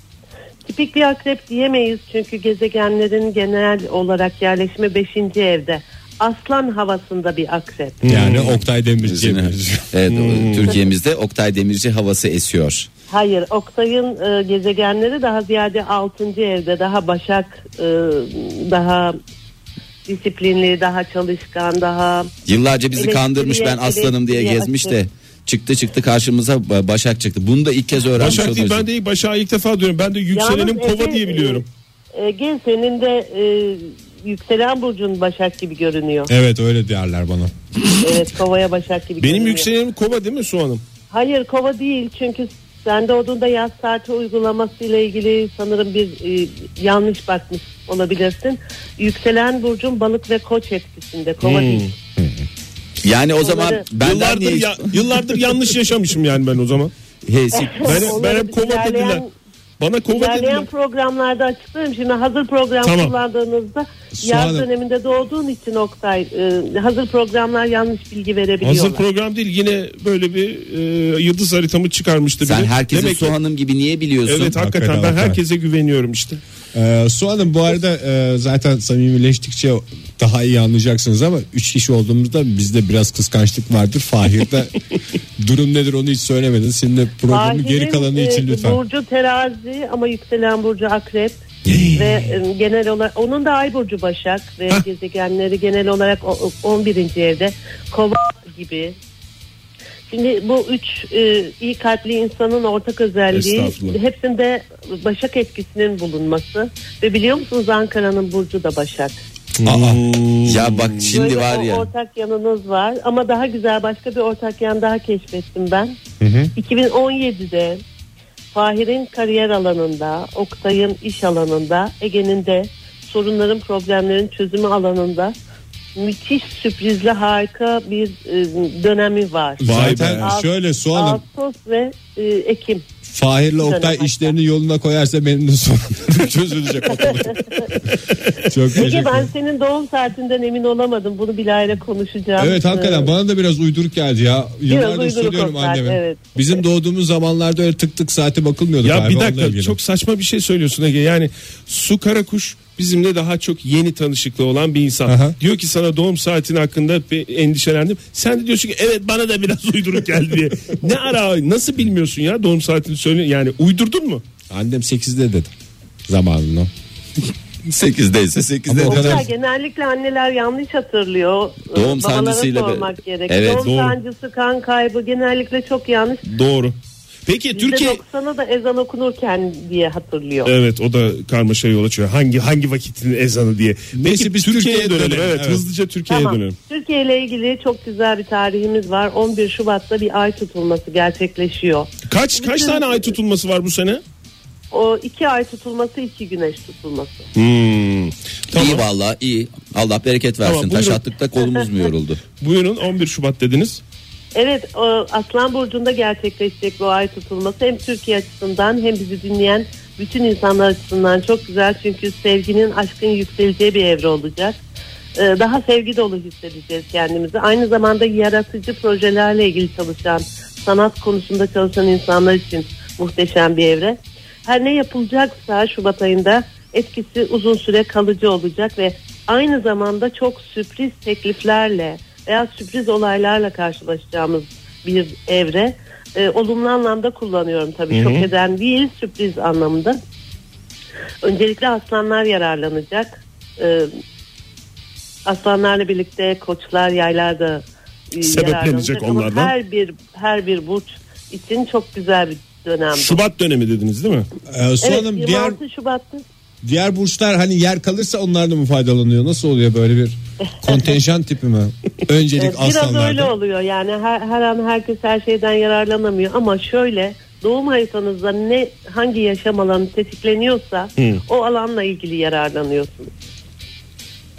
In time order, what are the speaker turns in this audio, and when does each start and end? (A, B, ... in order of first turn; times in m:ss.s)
0:00.6-0:08.0 A
0:08.0-0:08.6 B
0:08.0-0:09.9 C
0:09.0-0:12.9 D
0:10.1-0:10.8 B
0:13.1-0:19.2 A
0:20.0-0:22.3 A
0:22.5-0:28.8 D
0:22.9-0:25.0 A
0:28.1-0:31.6 B
0:30.3-0:31.6 A
0:32.1-0:36.3 A
0:36.3-0:37.5 C
0:38.0-0:39.7 A
0:39.2-0:40.8 B
0:41.1-0:51.9 A
0:51.4-0:51.9 B
0:53.0-0:54.9 D
0:53.4-0:53.8 A
0:54.0-0:56.9 B
0:57.2-0:58.1 D
0:57.5-0:59.3 A
0:57.8-0:59.2 B
0:59.8-1:00.7 B
1:00.1-1:09.0 A
1:02.8-1:03.1 B
1:04.1-1:04.7 C
1:08.6-1:13.4 B
1:12.4-1:14.6 D
1:14.2-1:16.4 B
1:14.5-1:15.4 C
1:16.7-1:24.8 C
1:25.4-1:28.8 C
1:27.3-1:39.0 A
1:31.7-1:32.2 B
1:40.1-1:49.2 A
1:43.3-1:44.0 B
1:49.6-1:51.1 B
1:49.6-1:50.0 C
1:50.4-1:51.9 D
1:51.1-1:56.0 A
1:56.2-1:56.5 C
1:56.5-1:57.8 A
1:58.5-2:05.3 A
2:06.0-2:12.8 A
2:09.6-2:11.2 C
2:09.6-2:10.3 B
2:13.0-2:19.3 C
2:13.6-2:14.3 A
2:17.0-2:17.7 A
2:18.7-2:23.1 A
2:22.4-2:29.8 C
2:24.7-2:26.6 A
2:28.8-2:44.2 B
2:35.0-2:35.4 C
2:44.5-2:45.5 C
2:46.1-2:46.7 C
2:47.6-2:49.2 D
2:48.7-2:49.3 C
2:48.8-2:56.2 A
2:51.7-2:53.7 D
2:53.6-2:54.0 B
2:56.2-2:58.0 B
2:57.5-3:00.5 A
3:00.4-3:06.6 B
3:03.9-3:05.6 C
3:06.1-3:13.1 A
3:12.1-3:14.0 B
3:14.7-3:17.3 A
3:17.3-3:18.8 B
3:18.5-3:22.2 D
3:20.4-3:21.0 B
3:22.4-3:23.8 B
3:24.3-3:34.6 A
3:35.2-4:00.0 A
3:57.9-3:58.3 B
4:01.2-4:03.9 A
4:05.2-4:13.2 A
4:08.2-4:09.5 B
4:12.9-4:14.3 B
4:14.5-4:15.6 C
4:14.8-4:16.2 A
4:16.6-4:23.3 C
4:22.4-4:33.1 A